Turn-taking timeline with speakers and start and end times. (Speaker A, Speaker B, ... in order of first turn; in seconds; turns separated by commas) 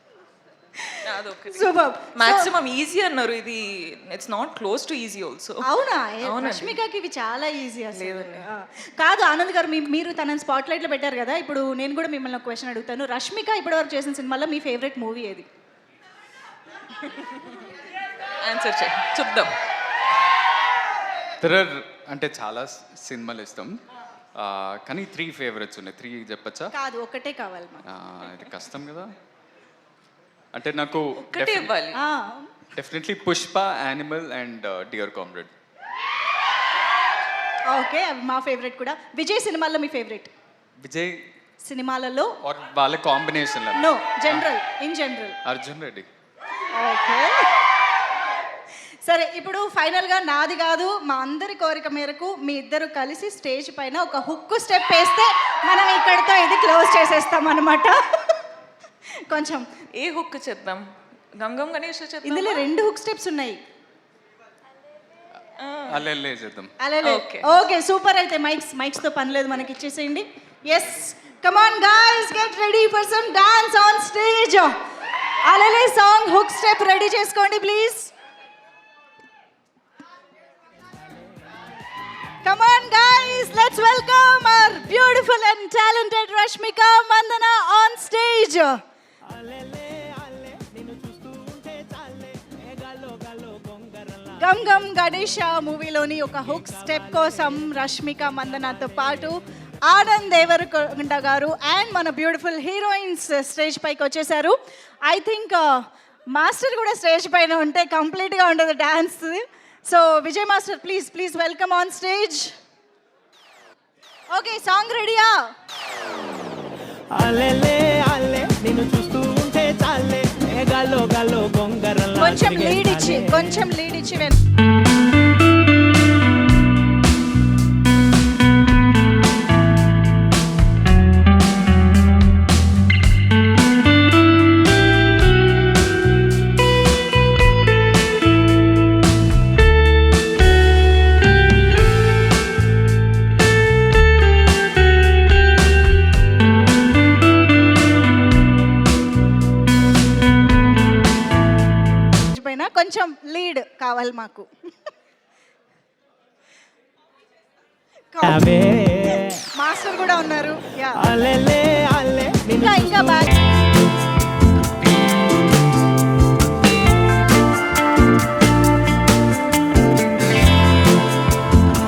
Speaker A: 0.8-2.5, Speaker B: 1.0-5.6, Speaker A: 5.6-15.5, Speaker B: 6.2-6.8, Speaker B: 7.9-8.5, Speaker B: 17.0-17.6, Speaker B: 18.4-19.6, Speaker C: 21.4-23.8, Speaker C: 24.4-26.7, Speaker A: 26.7-27.9, Speaker C: 27.9-29.1, Speaker C: 30.5-31.7, Speaker B: 31.2-32.0, Speaker A: 31.9-32.6, Speaker C: 32.8-35.5, Speaker A: 37.7-40.3, Speaker C: 40.8-41.2, Speaker A: 41.6-42.4, Speaker C: 42.4-44.5, Speaker A: 43.8-45.4, Speaker C: 45.5-46.1, Speaker A: 46.7-47.5, Speaker A: 49.0-58.4, Speaker A: 59.3-59.6, Speaker B: 60.0-60.8, Speaker B: 61.4-62.7, Speaker A: 62.2-63.6, Speaker B: 65.6-66.0, Speaker C: 65.9-66.7, Speaker A: 66.8-74.7, Speaker B: 67.0-67.6, Speaker A: 75.5-78.1, Speaker A: 82.4-88.8, Speaker D: 89.3-94.4, Speaker A: 94.4-104.5, Speaker A: 105.1-105.7, Speaker A: 106.3-112.5, Speaker A: 114.3-115.3, Speaker D: 117.1-123.4, Speaker A: 122.2-124.4, Speaker A: 152.3-154.5, Speaker A: 158.1-161.1, Speaker D: 158.2-159.3, Speaker D: 161.0-163.3, Speaker A: 162.6-163.3